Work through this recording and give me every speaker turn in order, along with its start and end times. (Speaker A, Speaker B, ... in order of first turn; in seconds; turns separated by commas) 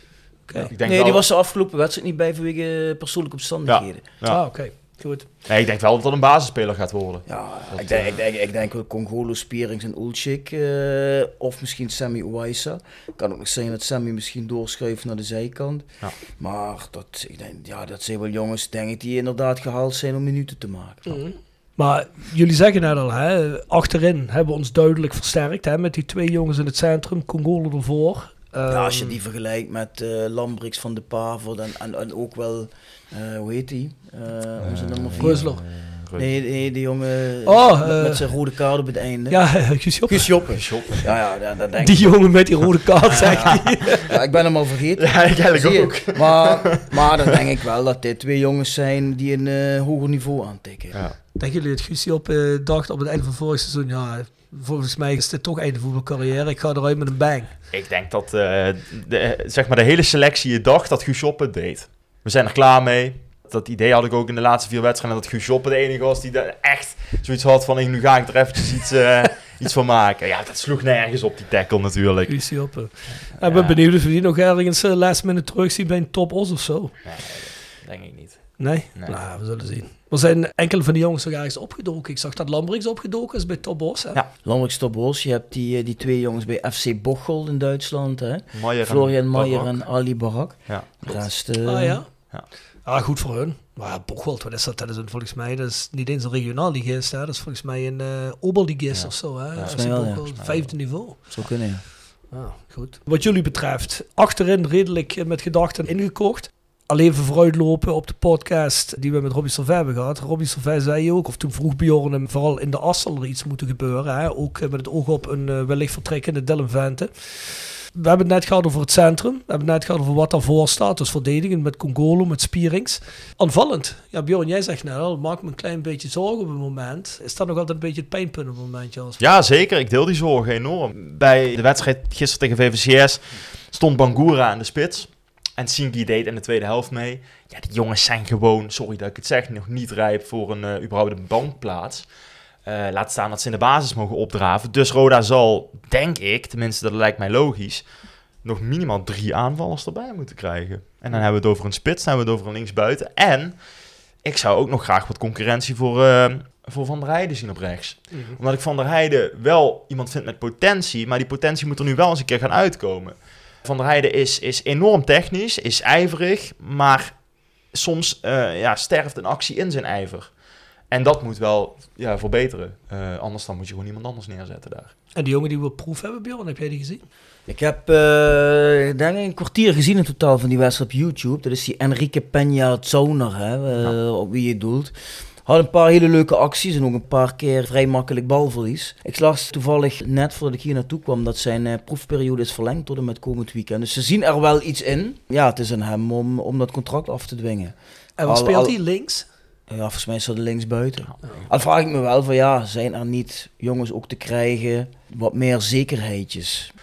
Speaker A: 0.5-0.7, Speaker B: 0.6-1.2, Speaker C: 0.8-4.0, Speaker B: 3.7-4.4, Speaker A: 4.3-5.3, Speaker B: 5.5-8.2, Speaker C: 7.3-21.2, Speaker A: 21.1-29.1, Speaker C: 28.7-35.5, Speaker B: 34.6-36.3, Speaker A: 35.2-35.6, Speaker C: 36.1-42.1, Speaker A: 37.5-38.2, Speaker A: 39.3-40.3, Speaker B: 40.5-41.1, Speaker A: 41.8-44.1, Speaker C: 43.1-51.0, Speaker B: 43.1-43.6, Speaker B: 45.0-46.9, Speaker A: 51.4-57.5, Speaker B: 57.7-73.8, Speaker A: 72.3-76.9, Speaker B: 77.0-79.2, Speaker A: 78.6-84.2, Speaker C: 84.4-92.0, Speaker B: 88.5-89.8, Speaker B: 90.7-91.3, Speaker A: 91.7-92.3, Speaker A: 92.9-101.2, Speaker B: 98.9-100.7, Speaker C: 99.6-100.3, Speaker C: 101.3-101.8, Speaker A: 102.3-129.2, Speaker B: 129.2-142.1, Speaker B: 142.7-147.9, Speaker B: 148.4-153.6, Speaker B: 154.2-167.2, Speaker B: 167.7-170.3, Speaker B: 170.9-174.9, Speaker A: 175.2-177.0, Speaker C: 177.5-184.9, Speaker C: 185.5-198.8, Speaker A: 198.2-199.3, Speaker C: 199.7-206.7